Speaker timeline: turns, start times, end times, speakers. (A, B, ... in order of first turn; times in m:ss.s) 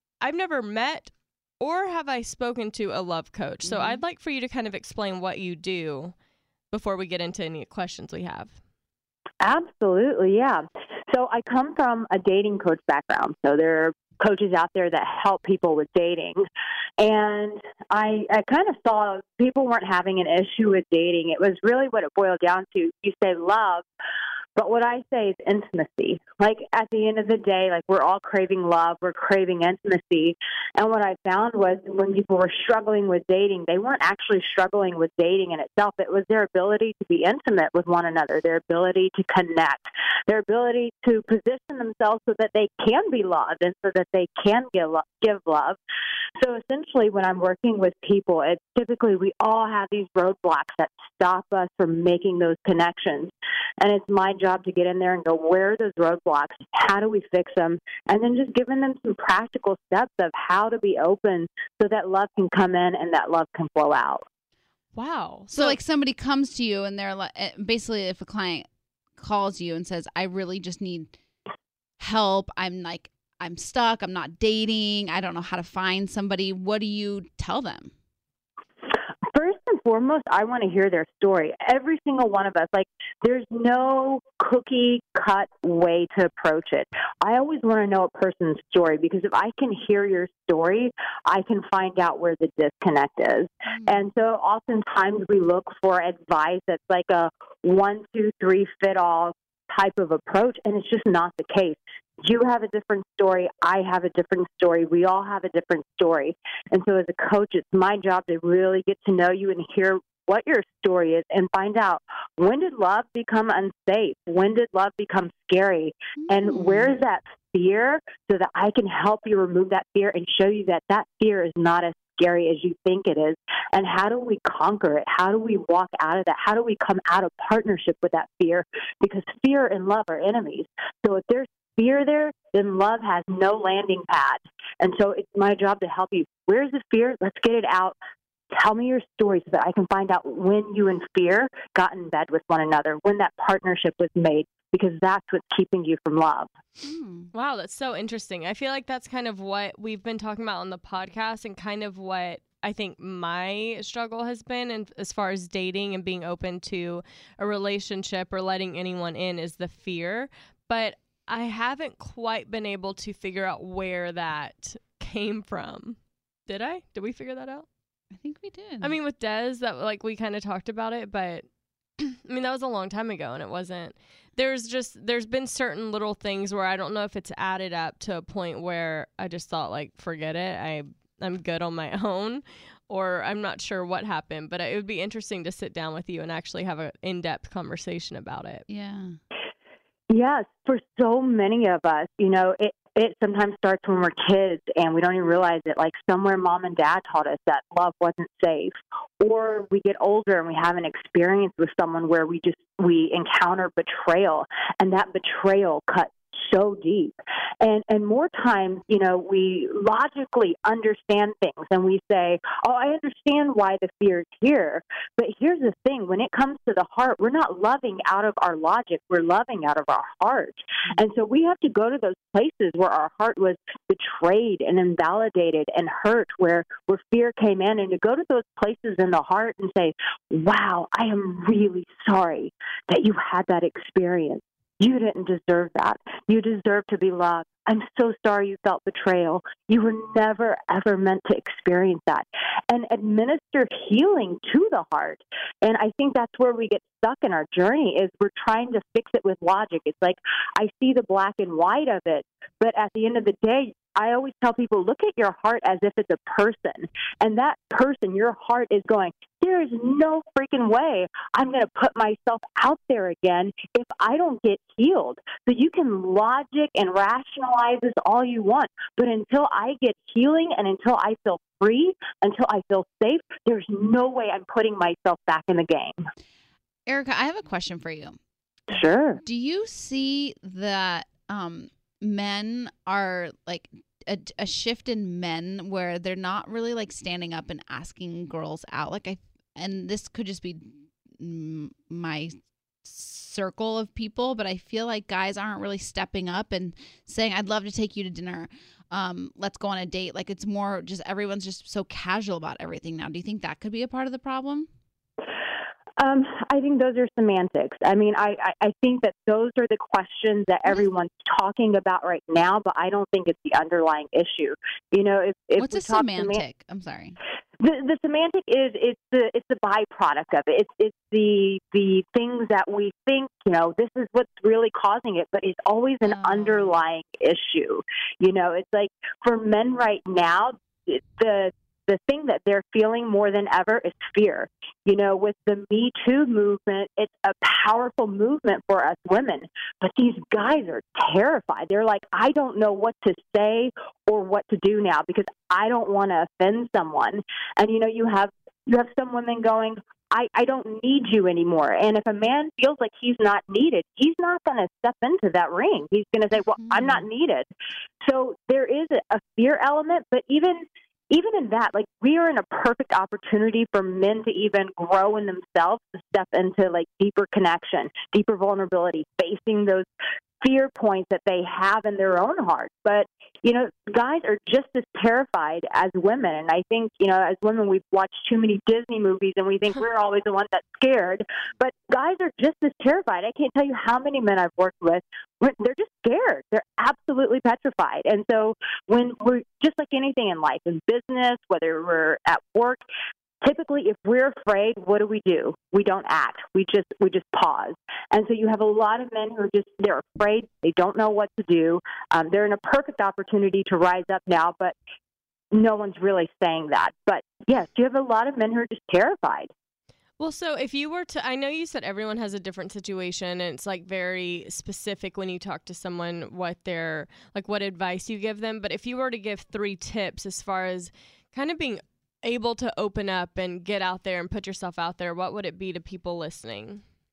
0:00.2-0:06.1 A
0:03.6-0:04.0 B
0:06.7-0:08.6 A
0:09.4-0:16.4 C
0:17.0-0:23.8 C
0:24.6-0:45.8 C
0:46.4-1:04.2 C
1:04.9-1:05.8 A
1:05.5-1:08.7 B
1:09.2-1:11.1 B
1:12.0-1:17.9 B
1:19.3-2:18.0 C
1:33.7-1:34.0 B
1:56.2-1:57.0 B
2:18.5-2:26.5 C
2:26.8-2:27.3 B
2:27.3-2:47.6 A
2:48.1-2:49.0 B
2:48.8-2:51.4 A
2:52.0-3:08.6 A
3:08.7-3:09.2 B
3:10.1-4:36.0 C
4:36.8-4:38.2 B
4:38.7-4:39.2 C
4:39.2-5:04.7 B
5:06.0-5:16.4 C
5:15.6-5:17.2 B
5:17.6-5:57.5 C
5:26.0-5:26.7 B
5:56.6-5:57.0 B
5:58.0-6:09.9 C
6:10.4-6:32.8 C
6:33.4-6:44.7 C
6:45.5-6:49.5 C
6:50.2-7:06.8 A